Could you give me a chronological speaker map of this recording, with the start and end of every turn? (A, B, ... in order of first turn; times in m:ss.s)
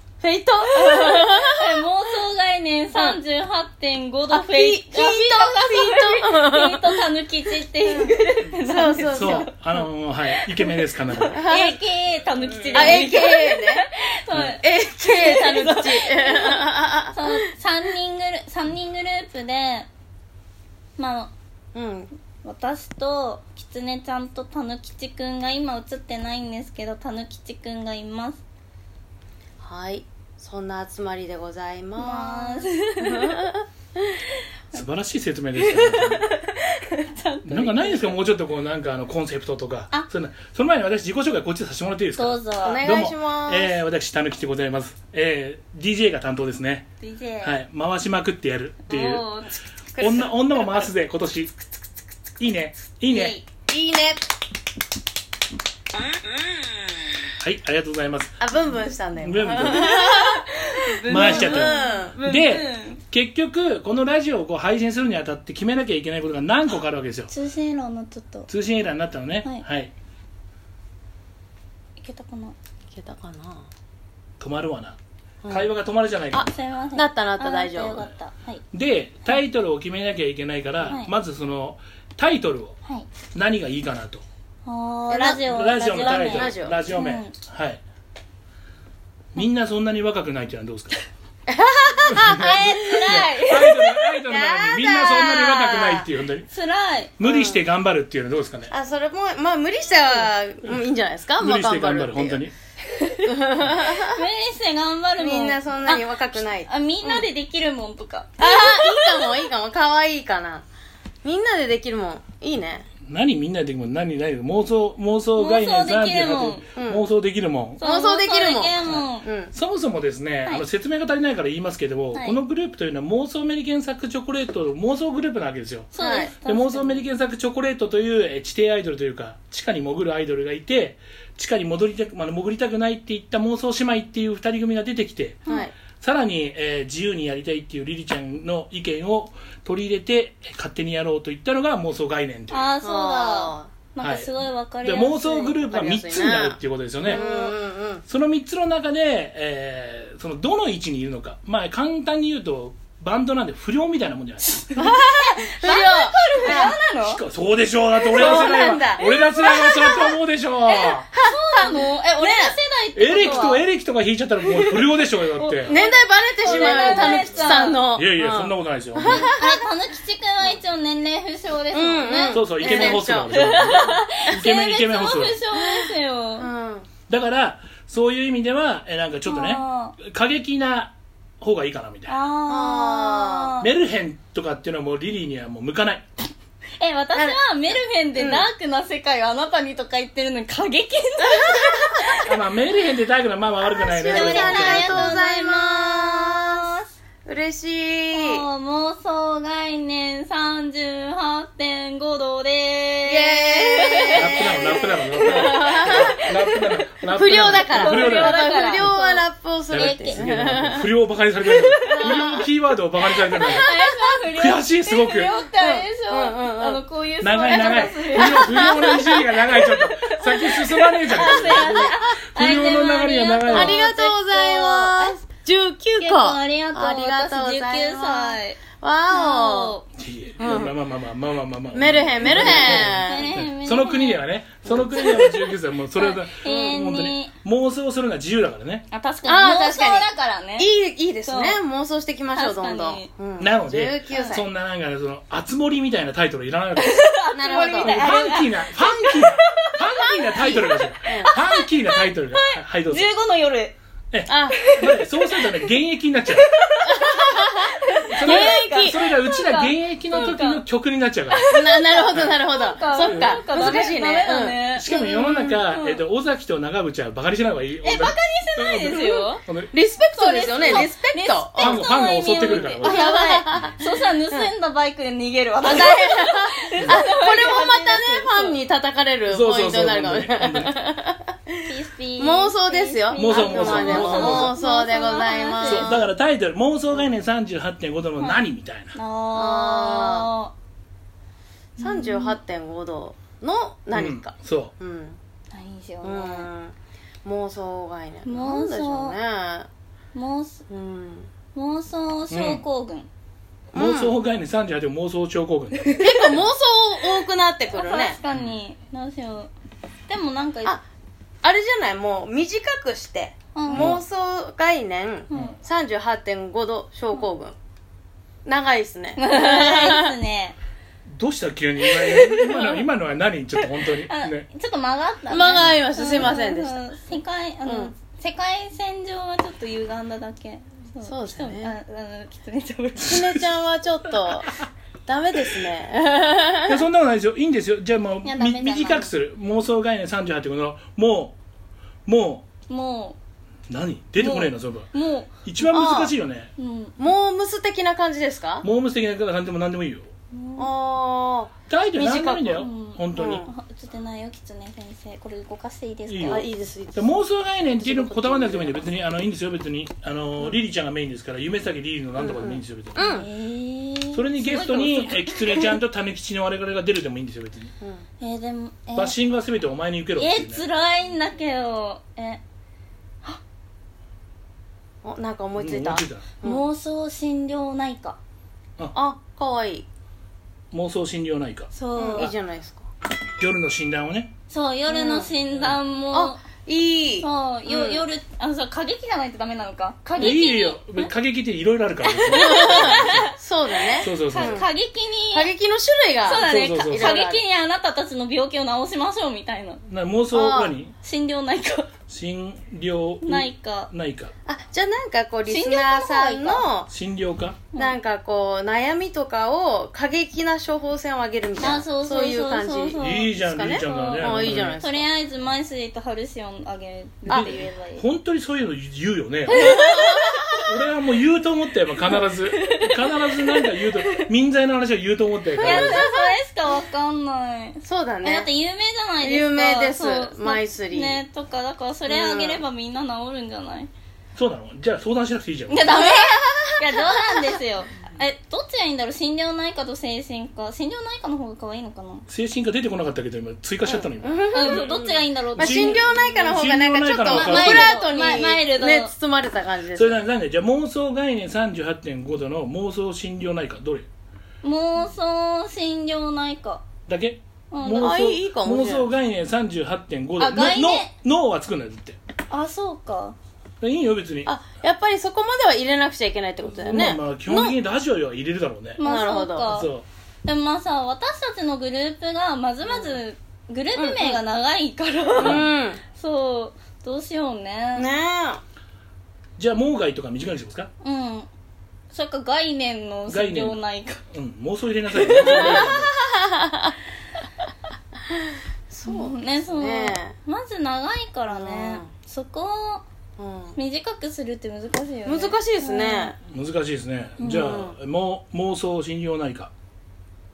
0:00.2-0:01.8 A
0:00.7-0:09.5 B
0:02.9-0:03.2 A
0:04.3-0:07.0 A
0:07.8-0:09.6 A
0:09.1-0:11.4 C
0:10.3-0:19.9 B
0:11.3-0:11.8 A
0:12.6-0:13.1 C
0:12.7-0:13.9 A
0:14.6-0:17.4 A
0:21.0-0:21.3 B
0:21.7-0:22.1 A
0:22.4-0:28.4 B
0:29.6-0:34.1 A
0:32.0-0:33.5 B
0:34.7-0:36.3 C
0:35.6-0:38.2 B
0:37.4-0:46.9 C
0:42.2-0:42.9 B
0:42.6-0:43.8 A
0:47.0-0:47.5 B
0:47.4-0:49.2 C
0:48.9-0:49.5 B
0:49.9-0:50.3 A
0:50.0-0:51.6 C
0:52.4-0:53.4 C
0:53.1-0:54.2 A
0:57.4-0:58.3 C
0:58.4-1:02.2 A
0:59.2-1:00.0 C
0:59.6-1:03.0 B
1:01.1-1:07.3 C
1:07.3-1:08.5 B
1:08.5-1:09.9 C
1:12.0-1:12.6 B
1:12.9-1:13.7 A
1:14.4-1:15.0 C
1:15.4-1:15.7 A
1:15.5-1:16.5 C
1:16.3-1:18.1 A
1:16.3-1:18.6 B
1:18.7-1:22.8 C
1:20.8-1:21.1 B
1:23.3-1:24.2 C
1:24.6-1:27.3 B
1:25.1-1:26.8 A
1:25.4-1:27.8 C
1:29.3-1:31.0 C
1:31.5-1:32.6 A
1:32.1-1:36.5 C
1:32.1-1:33.9 B
1:33.8-1:36.1 A
1:36.5-1:37.1 B
1:37.2-1:38.7 C
1:37.2-1:37.6 A
1:38.7-1:42.4 A
1:41.4-1:42.5 C
1:42.9-1:49.4 B
1:43.2-1:44.2 A
1:45.2-1:47.3 A
1:48.4-1:50.6 A
1:51.2-1:52.9 A
1:53.0-1:57.8 C
1:55.4-1:56.6 B
1:56.7-1:57.1 A
1:57.8-1:59.3 B
1:57.8-1:59.5 A
1:58.9-2:22.7 C
2:05.9-2:07.0 B
2:06.0-2:06.4 A
2:15.4-2:15.7 A
2:22.5-2:25.4 B
2:22.8-2:23.7 A
2:24.0-2:24.3 C
2:24.8-2:27.2 C
2:25.2-2:28.0 A
2:27.0-2:27.6 B
2:28.1-2:34.7 C
2:34.7-2:37.2 B
2:34.7-2:36.8 A
2:36.4-2:41.1 C
2:38.0-2:40.1 A
2:38.1-2:40.0 B
2:40.7-2:42.6 A
2:40.8-2:43.6 B
2:43.0-2:45.7 C
2:44.5-2:44.8 B
2:45.4-2:47.8 B
2:45.7-2:49.6 A
2:46.4-2:49.3 C
2:49.0-2:56.5 B
2:51.7-2:53.8 A
2:52.3-2:55.4 C
2:55.6-2:56.9 A
2:57.1-3:02.2 C
2:59.2-2:59.9 B
3:02.1-3:03.7 B
3:02.5-3:03.5 A
3:03.6-3:06.1 C
3:06.8-3:12.3 B
3:08.2-3:08.5 A
3:11.3-3:12.2 A
3:12.2-3:15.1 C
3:13.7-3:16.7 A
3:14.0-3:16.9 B
3:17.2-3:18.4 A
3:18.1-3:24.8 B
3:23.0-3:30.9 A
3:24.1-3:28.9 C
3:27.7-3:30.2 B
3:29.7-3:33.7 C
3:31.8-3:32.5 A
3:31.8-3:32.4 B
3:33.2-3:34.0 A
3:33.3-3:45.2 B
3:34.4-3:35.3 C
3:35.5-3:36.8 A
3:37.2-3:43.8 C
3:38.1-3:39.1 A
3:40.6-3:42.0 A
3:43.5-3:49.8 A
3:46.0-3:48.6 B
3:49.1-3:49.8 B
3:50.0-3:58.8 C
3:50.4-3:50.8 A
3:51.7-3:53.3 A
3:52.2-3:54.2 B
3:54.6-3:55.3 A
3:54.9-3:55.4 B
3:55.9-3:57.3 B
3:56.4-3:56.8 A
3:58.9-4:00.7 B
3:59.2-4:04.4 A
4:01.2-4:01.6 B
4:02.3-4:03.1 B
4:03.4-4:07.1 C
4:04.1-4:04.4 B
4:06.8-4:13.8 B
4:07.3-4:08.0 A
4:07.8-4:13.1 C
4:11.0-4:11.3 A
4:14.1-4:16.5 C
4:14.3-4:14.7 A
4:14.6-4:15.7 B
4:16.3-4:20.6 B
4:16.8-4:18.7 A
4:18.0-4:21.5 C
4:21.3-4:26.0 B
4:21.5-4:24.6 A
4:23.0-4:23.9 C
4:24.8-4:29.7 C
4:27.8-4:29.4 B
4:29.7-4:31.9 A
4:30.1-4:38.6 B
4:31.6-4:33.6 C
4:32.8-4:33.8 A
4:35.6-4:41.7 A
4:39.3-4:40.7 C
4:41.6-4:45.9 B
4:42.2-4:46.1 A
4:43.1-4:44.6 C
4:45.6-4:49.0 C
4:48.9-4:50.5 B
4:49.3-4:50.3 A
4:51.8-4:52.4 B
4:51.8-4:55.2 A
4:53.9-4:54.7 C
4:55.5-4:56.5 B
4:56.0-4:59.7 A
4:58.2-4:59.2 B
5:00.1-5:00.6 B
5:00.7-5:01.3 A
5:01.5-5:03.1 B
5:02.3-5:02.6 C
5:03.7-5:04.1 A
5:03.7-5:06.4 C
5:06.0-5:08.2 A
5:07.7-5:09.5 B
5:08.3-5:08.6 C
5:10.1-5:10.8 B
5:11.4-5:17.5 A
5:13.5-5:13.9 B
5:13.7-5:14.0 C
5:15.3-5:15.6 B
5:18.4-5:20.1 A
5:19.2-5:20.6 B
5:21.1-5:24.4 C
5:21.9-5:22.8 B
5:24.0-5:33.4 B
5:25.3-5:26.8 A
5:25.5-5:26.3 C
5:27.6-5:27.9 A
5:31.0-5:31.7 A
5:33.0-5:36.8 A
5:36.7-5:41.4 C
5:38.2-5:39.1 B
5:42.0-5:42.5 C
5:42.7-5:43.2 B
5:43.7-5:44.9 C
5:44.2-5:45.4 B
5:45.4-5:46.5 C
5:45.7-5:46.1 A
5:46.6-5:47.0 B
5:47.0-5:48.6 A
5:48.6-5:50.1 C
5:50.3-5:50.7 B
5:50.6-5:53.5 A
5:51.7-5:53.4 C
5:52.6-5:56.5 B
5:56.1-6:03.0 C
5:56.2-5:57.2 A
5:57.8-5:58.8 A
6:02.2-6:03.3 A
6:03.0-6:05.7 B
6:04.1-6:07.7 C
6:08.2-6:09.1 B
6:09.0-6:10.6 C
6:10.2-6:12.4 B
6:15.0-6:16.6 A
6:15.6-6:16.3 C
6:16.4-6:18.2 B
6:18.9-6:19.8 A
6:20.7-6:21.7 C
6:21.7-6:22.3 B
6:22.0-6:22.9 A
6:23.4-6:24.3 C
6:24.5-6:26.4 B
6:24.9-6:25.3 A
6:26.1-6:28.0 A
6:27.2-6:31.1 B
6:30.2-6:33.3 C
6:32.1-6:33.4 B
6:32.3-6:34.7 A
6:33.9-6:35.5 B
6:34.0-6:34.6 C
6:35.3-6:37.4 A
6:36.2-6:39.8 B
6:36.4-6:37.2 C
6:39.9-6:40.9 C
6:40.3-6:40.7 A
6:41.0-6:41.9 B
6:42.1-6:44.3 C
6:43.2-6:43.9 B
6:44.4-6:46.9 A
6:45.5-6:46.6 B
6:46.9-6:47.6 C
6:47.8-6:55.1 A
6:51.6-6:58.0 B
6:53.0-6:54.8 C
6:57.3-6:59.8 C
6:57.3-6:57.6 A
6:59.5-7:00.7 A
6:59.5-7:00.6 B
7:00.6-7:06.0 C
7:02.1-7:04.3 B
7:05.6-7:06.3 A
7:05.6-7:13.9 B
7:07.8-7:08.5 A
7:09.2-7:11.2 A
7:12.1-7:12.6 A
7:14.4-7:16.0 C
7:15.7-7:22.2 B
7:15.9-7:17.6 A
7:22.3-7:24.9 C
7:23.8-7:30.2 A
7:24.5-7:26.0 B
7:25.6-7:27.9 C
7:27.2-7:29.1 B
7:29.9-7:34.1 C
7:34.6-7:36.8 B
7:37.1-7:42.2 C
7:37.7-7:38.2 B
7:38.0-7:39.1 A
7:40.4-7:41.1 B
7:42.5-7:43.4 B
7:43.8-7:44.5 C
7:44.4-7:47.8 A
7:46.7-7:49.0 C
7:49.0-7:49.9 B
7:49.0-7:49.7 A
7:49.7-7:50.0 C
7:50.4-7:58.1 B
7:52.9-7:53.1 A
7:54.0-7:54.4 A
7:55.4-7:56.0 A
7:55.4-7:55.7 C
7:58.0-7:58.6 A
7:59.6-8:00.9 C
8:01.0-8:01.5 B
8:02.1-8:04.2 B
8:03.3-8:06.1 C
8:05.2-8:05.8 B
8:05.4-8:06.9 A
8:08.9-8:10.4 A
8:09.0-8:13.0 B
8:11.5-8:12.1 A
8:13.4-8:13.8 A
8:13.8-8:16.3 B
8:15.2-8:16.4 A
8:16.5-8:19.7 C
8:17.4-8:17.8 B
8:17.4-8:17.9 A